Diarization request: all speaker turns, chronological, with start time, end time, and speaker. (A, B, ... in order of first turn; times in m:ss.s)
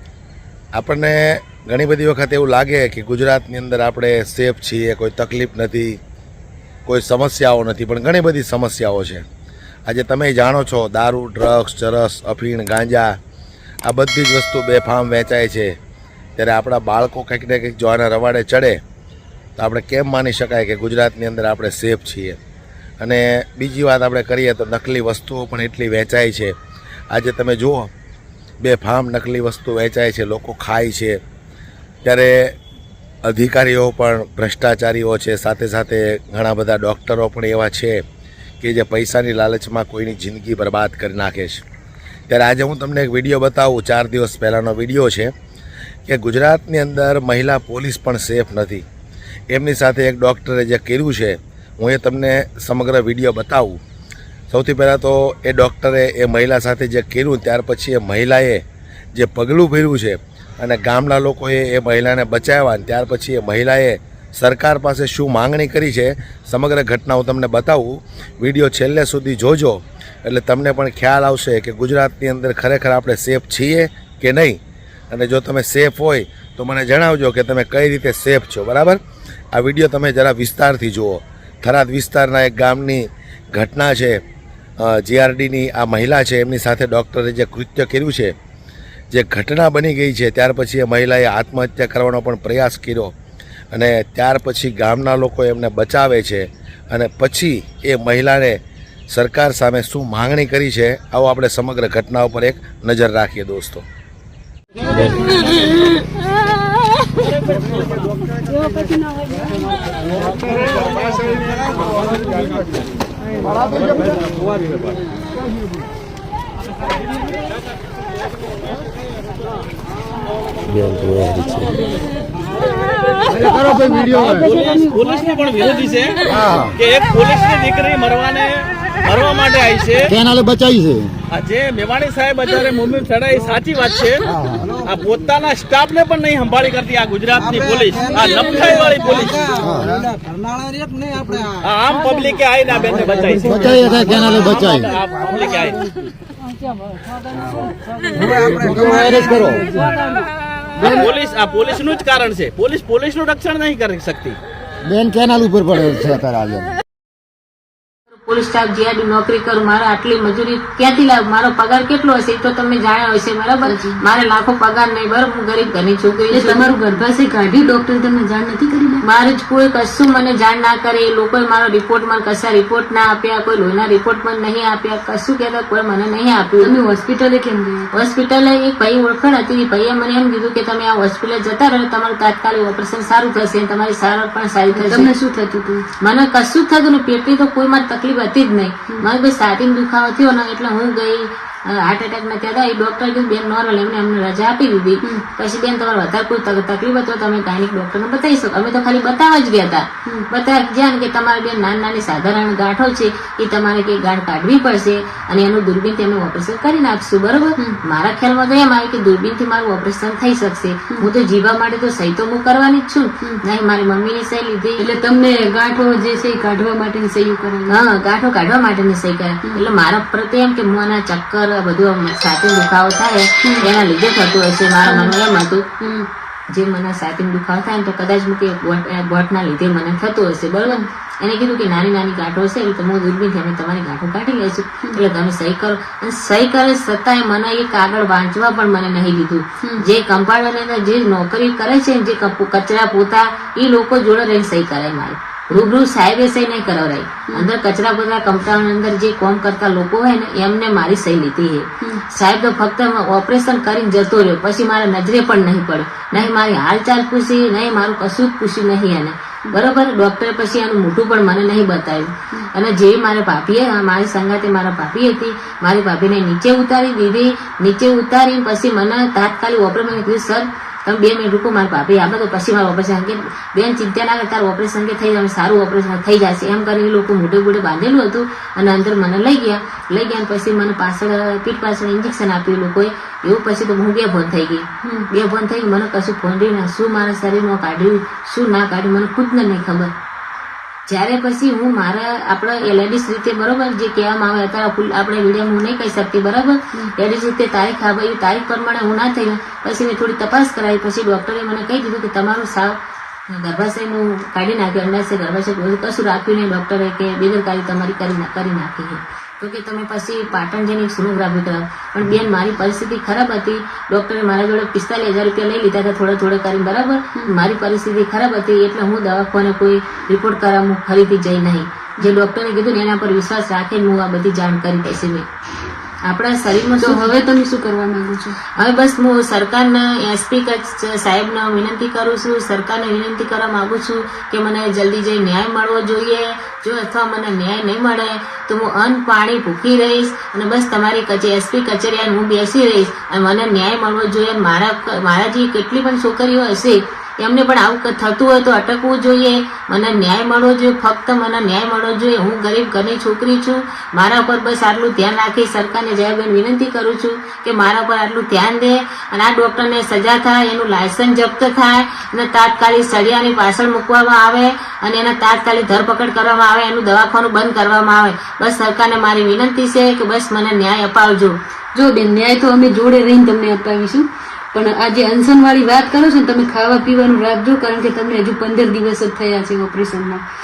0:00.7-0:06.0 A
0:06.9-0:09.2 A
0:09.9-0:13.2 A
0:13.8-0:15.8 A
0:16.4-0:18.8 A
0:19.6-0:22.4 A
0:23.0-0:26.5 A
0:27.1-0:27.9 A
0:28.6-0:31.2 A
0:32.0-0:32.6 A
0:33.2-0:38.0 A
0:38.6-0:41.6 A
0:42.3-0:45.3 A
0:46.1-0:48.8 A
0:49.5-0:53.8 A
0:54.5-0:58.6 A
0:59.1-1:14.6 A
1:15.1-1:19.0 A
1:19.5-1:24.2 A
1:24.8-1:28.3 A
1:29.1-1:33.1 A
1:33.7-1:38.6 A
1:39.1-1:43.8 A
1:44.9-1:45.3 B
2:00.7-2:01.8 B
2:03.3-2:04.5 B
2:04.5-2:06.2 C
2:06.3-2:06.7 B
2:06.8-2:10.1 C
2:10.1-2:11.2 B
2:11.3-2:14.2 C
2:14.3-2:14.7 B
2:14.8-2:19.4 C
2:19.6-2:20.1 B
2:21.6-2:25.8 C
2:23.4-2:24.7 D
2:23.4-2:24.9 B
2:28.2-2:29.7 B
2:30.8-2:31.0 B
2:30.9-2:34.4 C
2:34.8-2:36.7 B
2:38.2-2:46.6 E
2:43.6-2:44.0 D
2:46.3-2:49.0 D
2:49.0-2:56.7 E
2:56.6-2:57.9 D
2:57.9-3:05.1 E
3:04.7-3:05.8 D
3:06.0-3:34.8 E
3:34.8-3:37.7 D
3:37.7-3:45.7 E
3:44.8-3:45.1 D
3:46.5-4:49.9 E
4:50.9-5:02.7 E
5:03.3-5:25.2 E
5:26.0-5:27.1 E
5:26.8-5:28.4 D
5:28.5-6:11.4 E
6:11.8-6:20.2 D